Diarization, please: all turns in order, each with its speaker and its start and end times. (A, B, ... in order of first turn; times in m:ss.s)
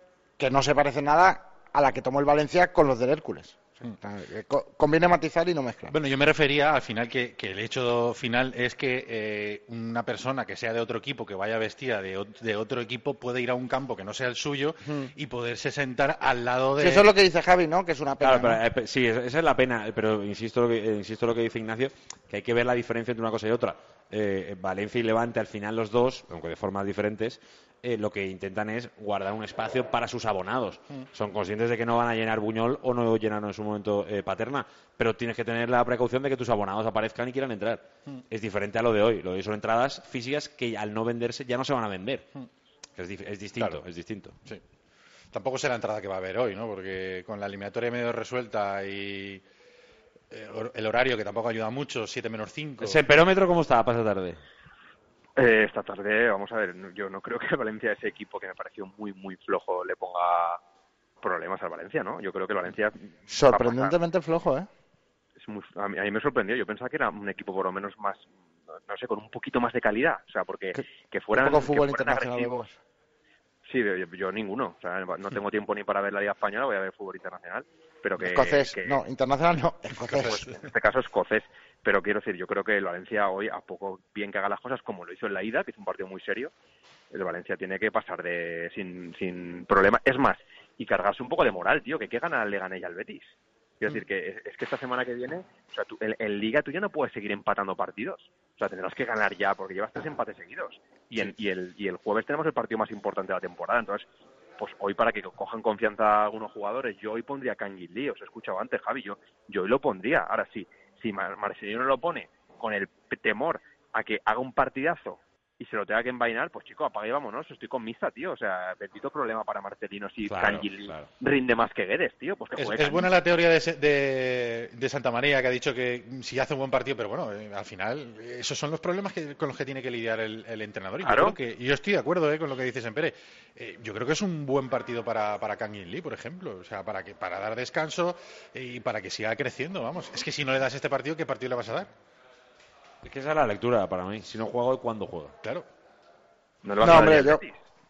0:00.4-0:06.0 A
0:05.9-0:17.1 B
0:16.8-0:18.6 A
0:18.2-0:42.3 C
0:43.0-0:44.4 C
0:45.3-0:49.4 B
0:50.3-0:53.0 B
0:52.8-0:54.4 C
0:55.4-1:00.6 D
1:01.2-1:04.0 D
1:03.3-1:04.7 A
1:05.4-1:08.2 D
1:08.8-1:12.6 D
1:11.3-1:12.8 A
1:13.6-1:19.0 D
1:18.2-1:20.4 A
1:20.0-1:26.5 D
1:27.1-1:44.0 D
1:44.6-2:03.1 D
2:00.2-2:01.1 C
2:02.6-2:21.9 B
2:11.0-2:11.4 D
2:23.0-2:25.4 C
2:26.6-2:27.5 D
2:26.8-2:27.4 A